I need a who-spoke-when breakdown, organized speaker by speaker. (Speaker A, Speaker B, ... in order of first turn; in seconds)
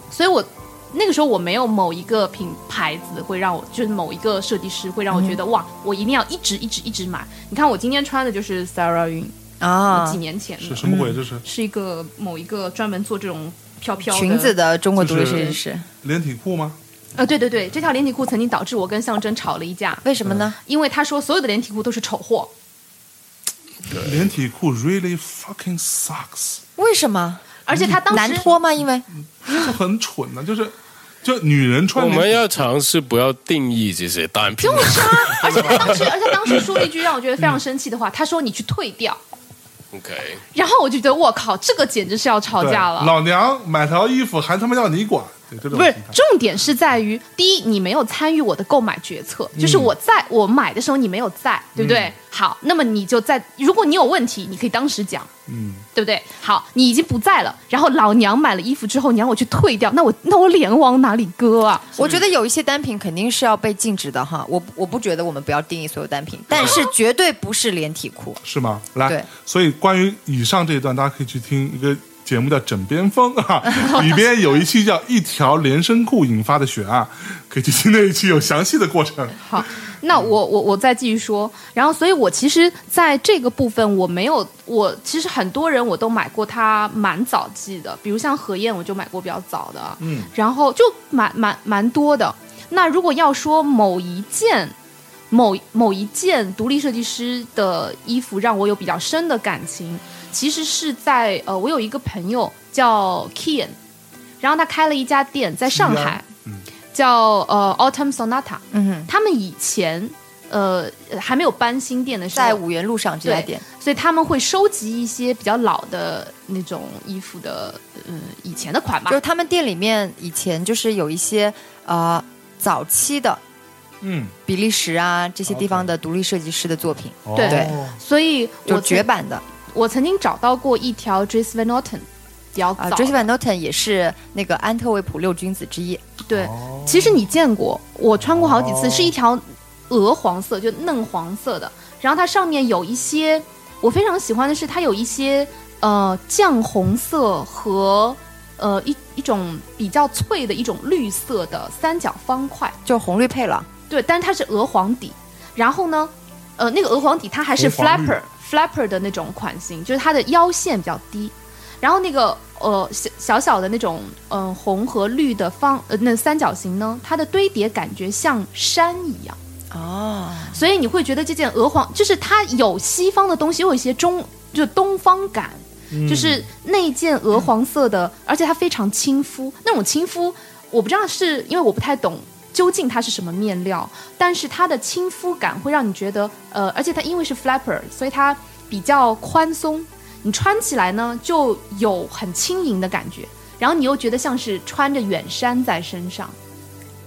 Speaker A: 0.1-9.3, 9.9-14.6, 15.2-15.5, 17.1-20.0, 20.6-22.5, 27.6-28.5, 34.6-39.2, 40.5-43.1, 45.7-55.3, 55.9-62.0, 79.4-94.7, 95.3-103.8, 104.4-106.2, 106.9-112.6, 113.2-119.2, 127.3-129.1, 129.7-133.3, 136.3-152.8, 153.9-169.4, 170.5-196.3
Speaker B: 5.1-5.4, 9.6-10.2, 10.8-11.2, 14.1-15.8, 20.0-20.6, 26.8-27.5, 28.1-29.1, 62.0-68.4, 108.7-109.1, 112.3-113.6, 119.1-123.4, 124.5-127.8, 128.7-129.4, 132.8-136.0, 152.8-153.7, 169.7-170.6
Speaker C: 10.6-11.4, 15.0-16.8, 23.9-26.6, 27.7-28.4, 29.4-32.5, 35.4-36.0, 42.6-46.2, 49.5-49.9, 51.8-52.1, 55.5-55.8, 62.0-62.2, 68.4-80.3, 90.0-90.3, 105.7-106.7, 124.0-124.3, 125.5-125.9, 127.2-128.0, 136.3-137.2, 138.2-139.1, 157.5-158.2, 175.9-176.5
Speaker D: 23.9-24.3, 31.9-36.1, 39.9-40.4